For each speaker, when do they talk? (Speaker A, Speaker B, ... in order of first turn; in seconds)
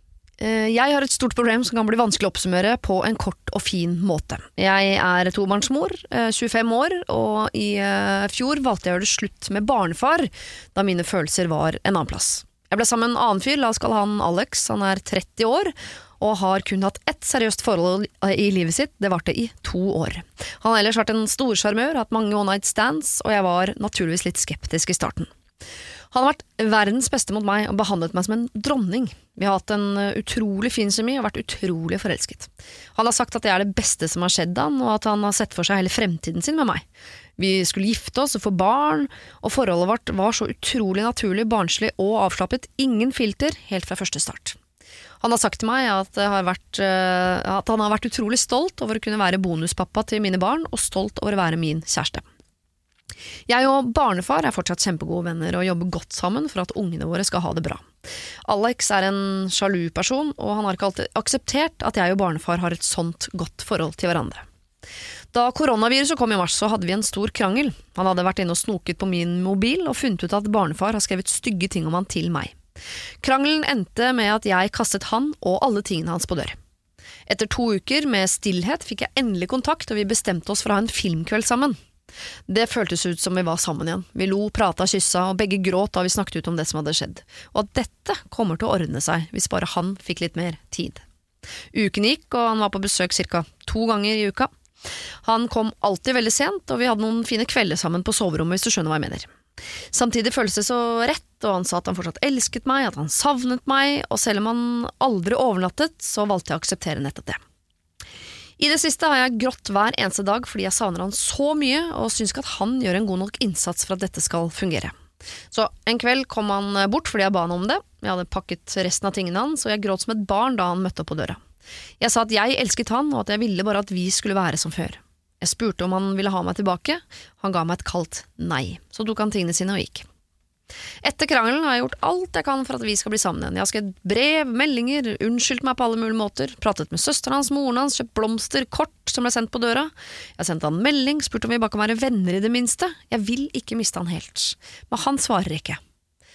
Speaker A: 0.4-25.3, 26.1-36.8, 37.4-44.6, 45.2-52.2, 53.5-57.9, 58.4-64.4, 65.3-72.5, 73.2-76.5, 77.3-81.8, 82.5-91.0, 91.7-94.5, 95.2-99.3, 99.9-107.4, 108.6-114.9, 115.5-121.4, 122.0-130.1, 131.0-145.8